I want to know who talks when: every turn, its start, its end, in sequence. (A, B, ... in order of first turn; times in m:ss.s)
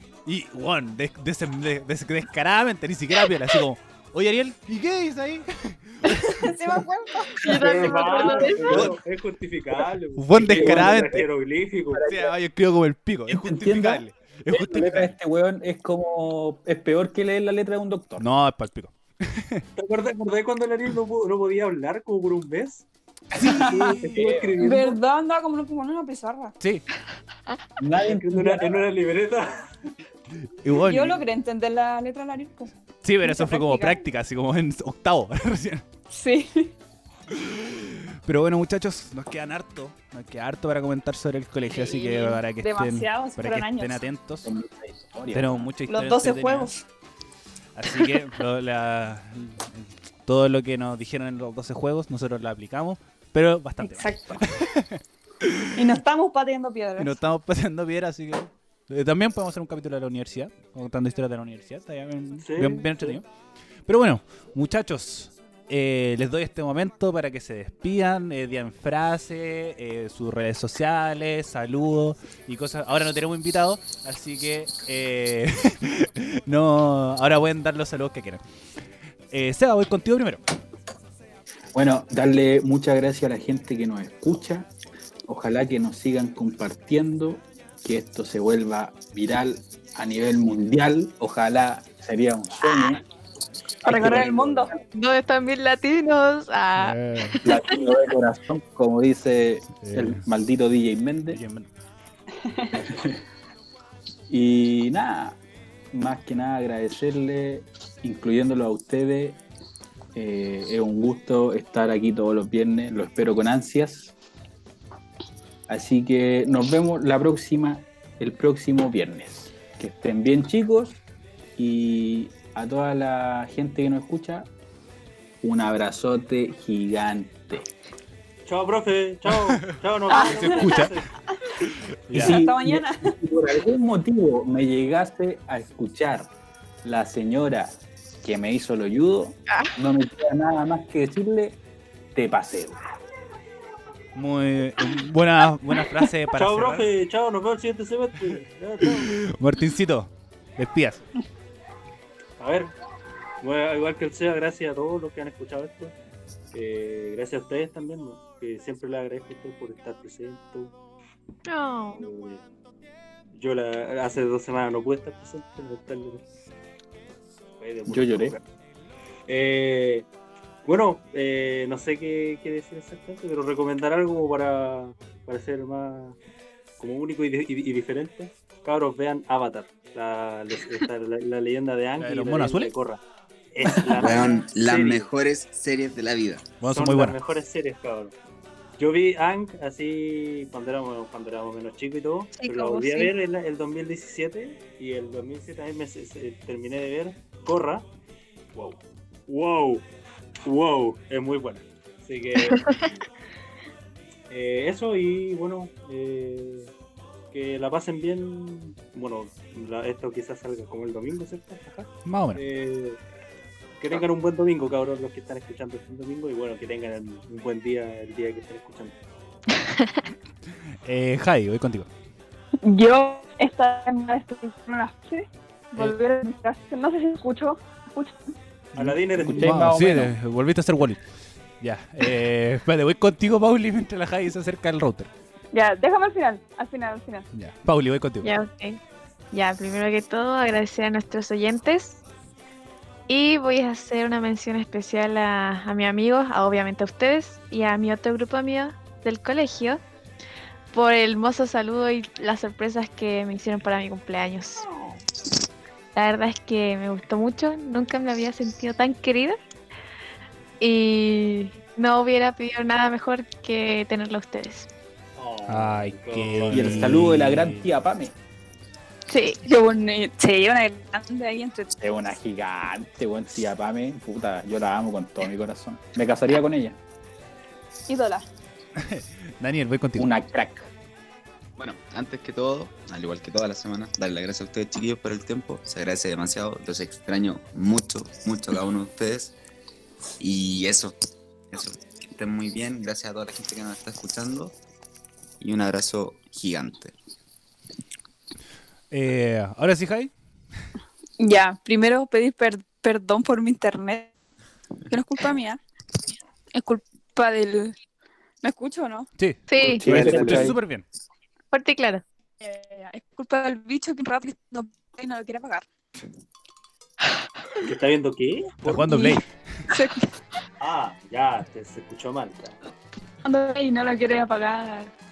0:00.2-0:06.5 A
0:06.2-0:08.3 B
0:07.4-0:08.9 C
0:07.4-0:12.1 D
0:08.2-0:08.9 E
0:10.2-0:11.3 A
0:10.5-0:11.0 E
0:11.9-0:12.3 E
0:12.0-0:15.1 A
0:13.3-0:18.3 E
0:18.2-0:19.6 A
0:19.8-0:22.8 D
0:23.4-0:24.2 A
0:23.4-0:24.6 E
0:23.5-0:25.0 D
0:24.6-0:26.5 B
0:27.8-0:28.8 E
0:28.1-0:29.7 D
0:30.6-0:31.2 A
0:30.8-0:32.7 B
0:33.0-0:35.8 A
0:33.2-0:34.0 B
0:36.1-0:36.7 B
0:37.3-0:44.5 A
0:41.7-0:44.0 B
0:44.4-0:45.7 E
0:45.3-0:46.7 A
0:45.9-0:46.8 B
0:47.7-0:55.8 A
0:53.8-0:54.4 B
0:55.7-0:57.2 B
0:57.0-1:03.2 A
1:02.4-1:03.2 D
1:03.8-1:18.4 A
1:19.3-1:20.4 A
1:21.7-1:24.7 E
1:25.3-1:33.0 E
1:33.8-1:34.7 E
1:33.8-1:34.7 B
1:34.8-1:37.9 C
1:36.8-1:37.4 A
1:37.4-1:41.4 E
1:39.8-1:40.2 A
1:41.3-1:41.7 A
1:42.4-1:42.8 B
1:42.8-1:43.2 E
1:44.3-1:45.4 E
1:45.9-1:49.4 E
1:50.1-1:54.1 E
1:55.7-2:01.0 E
2:01.6-2:04.5 E
2:05.4-2:07.7 E
2:08.4-2:11.1 D
2:09.7-2:11.0 A
2:10.1-2:10.9 B
2:11.6-2:12.4 A
2:12.1-2:16.3 E
2:12.1-2:13.1 B
2:16.8-2:21.6 E
2:22.1-2:22.8 E
2:24.1-2:26.9 A
2:26.3-2:29.2 D
2:28.8-2:31.0 A
2:32.4-2:32.7 D
2:33.4-2:35.9 D
2:36.5-2:40.7 D
2:41.4-2:42.1 C
2:41.9-2:42.4 D
2:43.3-2:46.2 D
2:47.6-2:48.4 D
2:47.9-2:48.4 E
2:49.3-2:50.1 D
2:50.6-2:56.2 D
2:56.8-3:03.0 D
3:02.0-3:02.7 A
3:03.5-3:05.1 D
3:04.0-3:06.5 F
3:06.6-3:07.2 A
3:06.6-3:08.1 D
3:08.8-3:17.8 D
3:12.4-3:13.1 C
3:18.5-3:19.8 D
3:20.4-3:22.9 D
3:22.4-3:22.9 C
3:24.3-3:26.7 D
3:27.3-3:33.0 D
3:32.0-3:32.4 A
3:33.8-3:39.0 D
3:40.8-3:41.9 A
3:42.6-3:48.3 B
3:48.8-3:49.6 D
3:48.8-3:50.1 E
3:49.2-3:51.0 A
3:51.6-3:55.1 A
3:55.5-3:57.3 B
3:57.3-3:58.3 A
3:58.2-3:58.8 C
3:59.3-4:02.0 C
4:03.1-4:09.8 C
4:10.7-4:14.6 C
4:14.6-4:15.0 B
4:15.9-4:19.4 C
4:20.6-4:24.7 C
4:25.2-4:27.0 D
4:25.5-4:27.7 A
4:26.5-4:28.1 E
4:29.1-4:31.7 B
4:31.8-4:36.8 E
4:37.9-4:38.2 B
4:38.8-4:40.1 A
4:40.0-4:40.7 E
4:41.6-4:49.4 F
4:50.2-4:51.0 F
4:51.5-4:54.5 F
4:55.4-4:56.9 F
4:58.9-5:00.1 A
5:01.2-5:04.1 B
5:04.9-5:05.6 B
5:06.5-5:07.8 B
5:08.4-5:09.1 B
5:09.2-5:10.8 A
5:09.5-5:10.4 C
5:09.7-5:10.6 E
5:11.5-5:12.0 C
5:12.4-5:15.6 B
5:17.6-5:19.1 D
5:18.6-5:19.3 A
5:18.9-5:19.2 B
5:19.7-5:20.2 B
5:20.6-5:22.6 D
5:23.2-5:24.9 B